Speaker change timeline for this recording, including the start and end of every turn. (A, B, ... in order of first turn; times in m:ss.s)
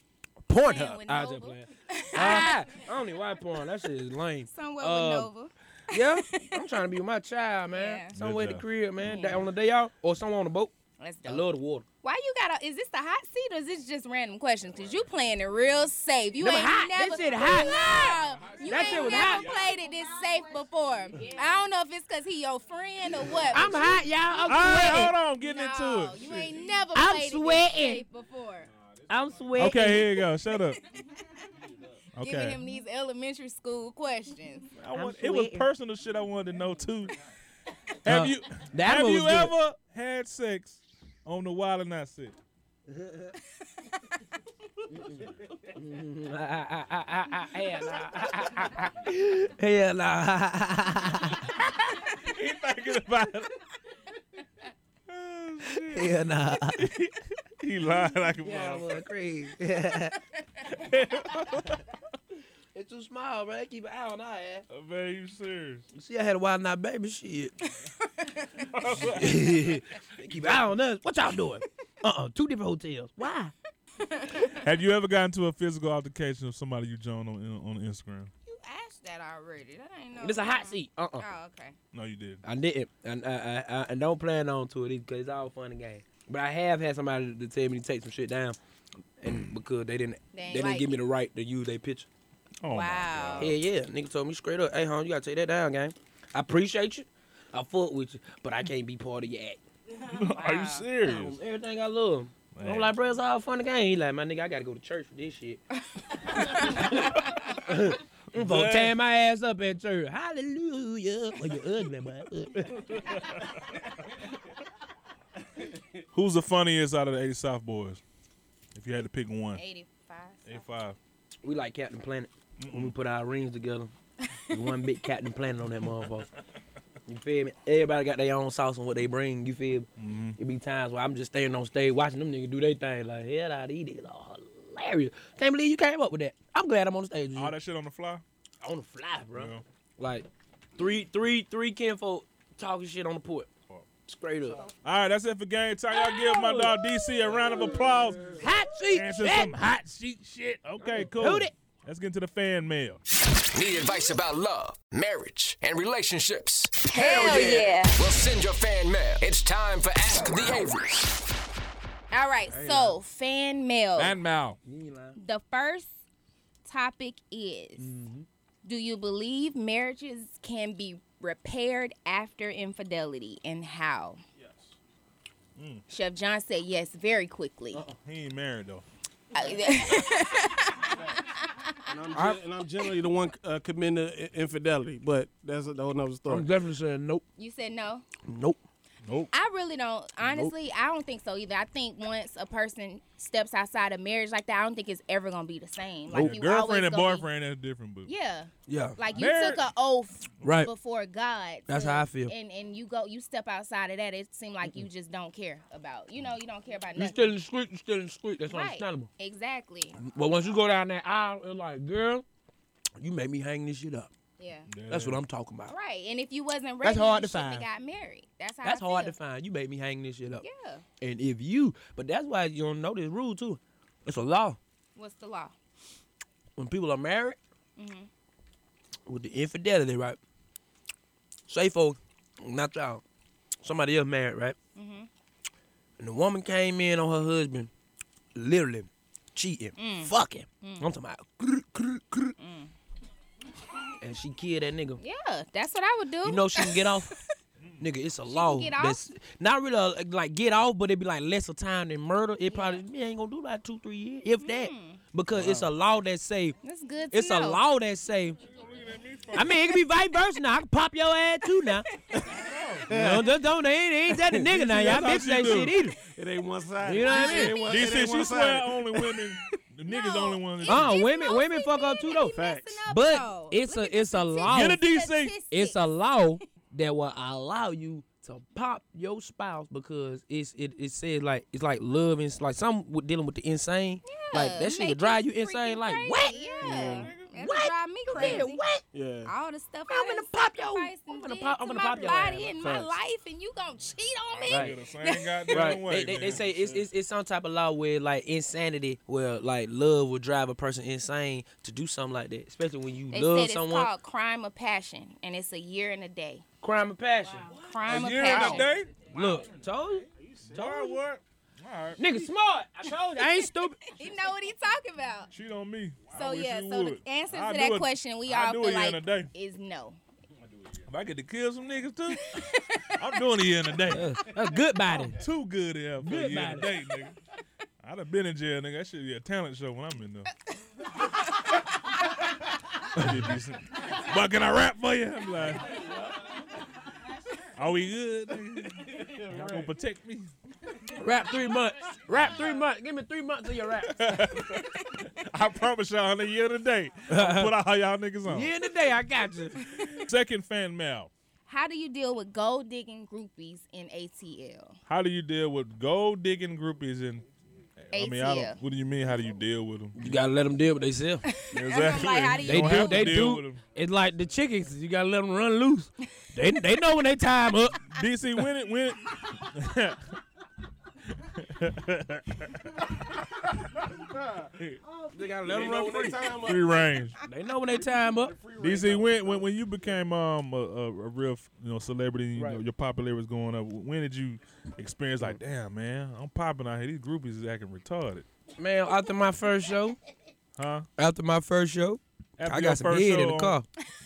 0:00.5-0:05.3 A
0:00.6-0:02.6 B
0:04.5-0:06.6 B
0:05.9-0:10.7 A
0:07.7-0:08.1 B
0:08.1-0:09.3 C
0:09.0-0:09.5 B
0:11.0-0:11.5 B
0:11.2-0:11.9 A
0:12.0-0:24.0 B
0:16.4-0:19.5 A
0:18.4-0:19.7 C
0:23.5-0:25.1 A
0:24.4-0:26.6 C
0:25.4-0:28.7 B
0:26.9-0:28.0 A
0:29.1-0:30.2 A
0:29.6-0:30.8 C
0:32.1-0:32.6 C
0:32.2-0:34.7 B
0:34.8-0:37.2 C
0:34.9-0:35.7 A
0:38.0-0:39.5 A
0:38.0-0:42.4 C
0:42.9-0:43.3 A
0:44.9-0:51.8 A
0:52.1-0:53.6 C
0:55.1-0:56.2 C
0:55.9-0:56.9 A
0:56.8-0:59.0 C
0:58.4-1:00.2 A
1:00.7-1:01.9 C
1:02.7-1:04.7 A
1:04.7-1:05.8 C
1:06.0-1:07.6 A
1:08.0-1:08.7 B
1:08.7-1:09.7 C
1:09.0-1:13.5 A
1:14.0-1:14.6 B
1:14.5-1:18.3 C
1:18.5-1:21.8 B
1:20.2-1:21.3 A
1:21.9-1:22.4 C
1:22.4-1:28.6 A
1:29.2-1:32.1 A
1:30.3-1:31.0 B
1:32.6-1:33.6 C
1:32.7-1:33.5 B
1:33.4-1:39.6 A
1:40.0-1:41.4 C
1:40.4-1:40.9 B
1:41.0-1:45.6 A
1:42.5-1:42.9 C
1:46.0-1:46.8 B
1:46.4-1:52.9 A
1:48.3-1:49.0 C
1:53.0-1:53.6 C
1:56.1-1:58.0 C
1:58.8-1:59.6 C
1:59.6-2:00.6 B
2:00.5-2:01.0 C
2:01.4-2:03.9 A
2:02.6-2:03.0 C
2:04.5-2:06.3 A
2:07.1-2:17.5 A
2:10.0-2:10.4 C
2:17.4-2:18.2 C
2:18.6-2:23.5 A
2:19.3-2:19.6 C
2:24.1-2:24.7 A
2:24.8-2:33.0 C
2:25.9-2:27.3 B
2:28.3-2:29.6 A
2:30.8-2:31.5 A
2:33.5-2:41.2 D
2:36.8-2:38.0 B
2:42.1-2:44.2 B
2:42.5-2:43.0 A
2:44.0-2:44.6 C
2:44.6-2:45.2 A
2:45.2-2:45.9 B
2:46.6-2:47.9 B
2:47.8-2:48.3 A
2:48.6-2:54.2 B
2:55.6-2:55.8 C
2:55.9-2:57.8 B
2:58.0-2:58.8 C
2:59.3-3:01.8 B
3:01.9-3:06.5 E
3:02.2-3:02.4 A
3:06.3-3:07.2 A
3:07.4-3:08.0 B
3:08.2-3:08.6 A
3:09.0-3:09.3 C
3:09.3-3:17.3 B
3:10.2-3:10.5 A
3:16.1-3:16.4 A
3:16.1-3:18.1 C
3:18.1-3:27.4 B
3:18.7-3:19.0 A
3:19.1-3:19.6 C
3:20.4-3:20.7 A
3:21.7-3:22.3 A
3:27.0-3:29.1 A
3:28.5-3:30.0 B
3:30.0-3:32.2 A
3:33.0-3:34.1 A
3:34.4-3:34.7 B
3:34.7-3:35.2 C
3:34.9-3:35.7 A
3:35.7-3:39.2 B
3:36.8-3:37.7 A
3:38.6-3:40.4 A
3:40.4-3:40.8 B
3:41.0-3:44.6 A
3:45.0-3:45.6 B
3:46.6-3:47.4 A
3:47.8-3:48.1 B
3:49.1-3:50.2 A
3:51.5-3:53.0 A
3:53.6-3:54.6 A
3:54.8-3:55.1 B
3:56.0-3:57.7 A
3:58.4-4:02.4 A
3:59.8-4:00.9 B
4:02.4-4:02.7 B
4:04.0-4:05.0 A
4:05.0-4:07.2 B
4:06.2-4:07.1 A
4:07.8-4:16.6 A
4:08.3-4:09.0 B
4:12.5-4:12.8 B
4:14.4-4:15.0 B
4:15.3-4:15.7 C
4:16.6-4:17.6 B
4:17.1-4:18.4 A
4:18.5-4:19.6 C
4:19.4-4:21.8 A
4:22.2-4:23.5 E
4:22.3-4:22.9 C
4:22.9-4:26.0 A
4:24.3-4:25.8 C
4:26.0-4:28.8 E
4:26.8-4:27.6 A
4:26.9-4:28.0 B
4:27.6-4:31.0 C
4:29.9-4:35.8 B
4:30.6-4:34.8 A
4:32.3-4:32.8 E
4:34.5-4:35.4 C
4:35.5-4:46.7 A
4:44.1-4:48.6 B
4:46.6-4:47.1 E
4:46.8-4:47.3 C
4:47.4-4:48.8 A
4:48.2-4:49.3 E
4:49.3-4:55.8 B
4:49.9-4:52.5 A
4:52.6-4:53.0 E
4:54.4-4:56.4 C
4:54.5-4:54.8 A
4:55.5-5:03.9 A
4:56.2-4:56.9 E
5:03.1-5:06.4 B
5:06.6-5:11.0 A
5:07.6-5:08.7 B
5:07.9-5:09.2 C
5:08.2-5:08.6 E
5:10.2-5:10.7 E
5:10.5-5:12.0 C
5:12.0-5:13.8 A
5:13.2-5:15.3 B
5:15.3-5:19.3 C
5:16.1-5:20.0 B
5:20.8-5:24.1 C
5:22.3-5:23.0 B
5:23.9-5:25.2 A
5:25.2-5:27.2 C
5:26.0-5:26.7 A
5:27.8-5:30.3 C
5:33.0-5:35.8 C
5:33.0-5:33.3 A
5:37.6-5:40.3 C
5:39.0-5:39.7 E
5:41.0-5:44.2 A
5:43.9-5:48.5 C
5:47.1-5:47.5 A
5:48.3-5:49.7 A
5:49.6-5:50.0 B
5:49.9-5:51.1 C
5:51.5-5:54.8 B
5:54.9-5:57.3 C
5:57.8-6:00.2 C
5:57.9-5:58.6 B
6:00.0-6:01.2 A
6:01.2-6:03.2 B
6:01.5-6:03.6 C
6:02.4-6:07.8 A
6:07.9-6:10.0 C
6:11.2-6:12.8 C
6:13.9-6:14.5 E
6:15.2-6:16.2 A
6:15.4-6:16.8 E
6:16.4-6:17.2 C
6:17.2-6:18.3 A
6:17.7-6:19.5 E
6:18.6-6:28.2 C
6:22.4-6:22.6 A
6:28.6-6:30.0 A
6:30.6-6:30.9 C
6:31.0-6:33.7 A
6:32.4-6:33.6 C